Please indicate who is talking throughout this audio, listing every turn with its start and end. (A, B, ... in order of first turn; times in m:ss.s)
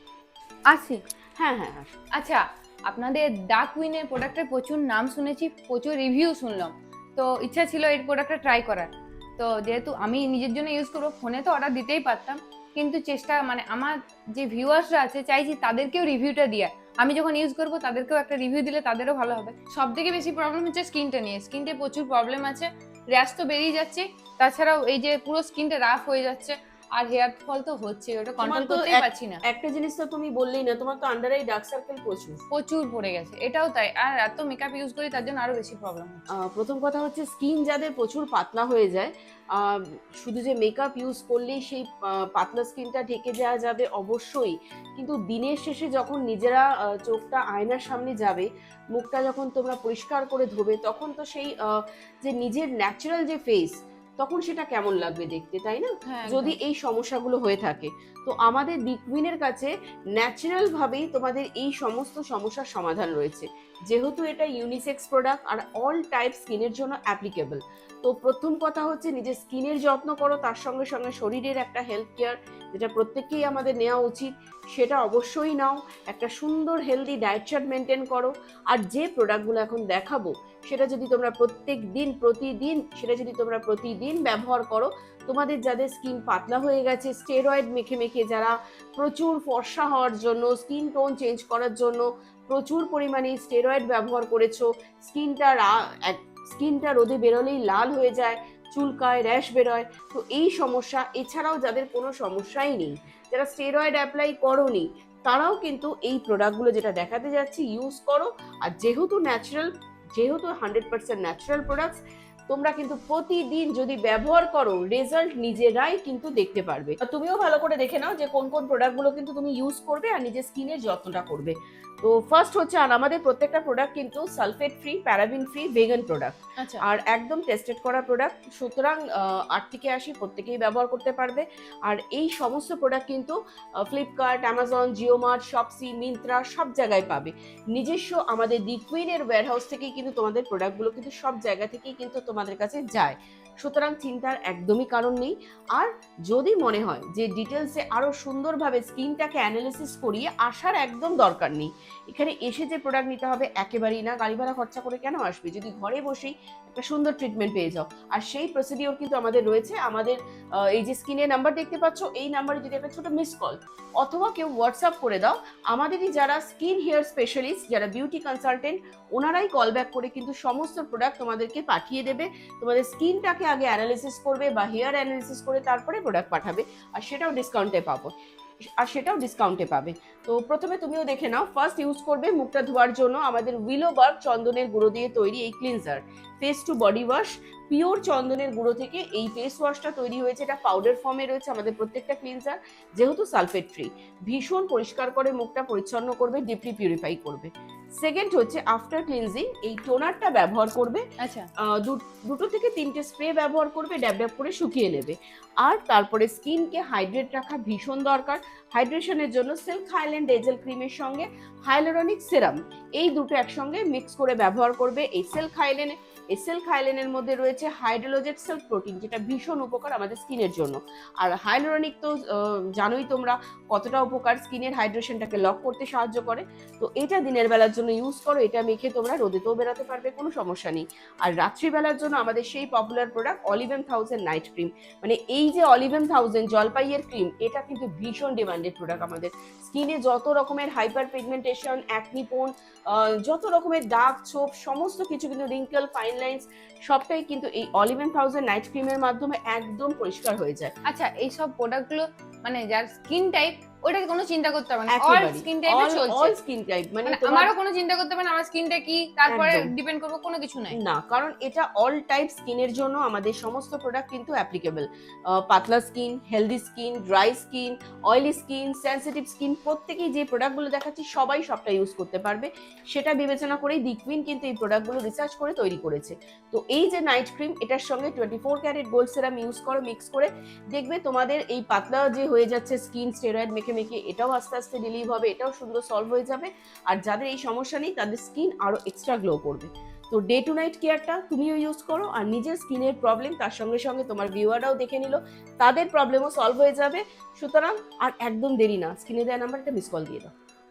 0:00.7-0:01.0 A
0:01.4-0:01.9 B
0:02.2-0:29.4 A
0:28.4-0:32.4 B
0:32.5-0:36.2 A
0:36.3-0:51.7 B
0:52.2-2:58.1 B
0:56.1-0:56.6 A
2:06.6-2:06.8 A
2:58.8-3:21.0 B
3:21.2-3:21.5 A
3:21.6-4:10.7 B
4:10.9-4:16.3 A
4:14.9-4:17.5 B
4:17.1-4:20.8 A
4:19.3-4:19.7 B
4:20.7-5:00.3 B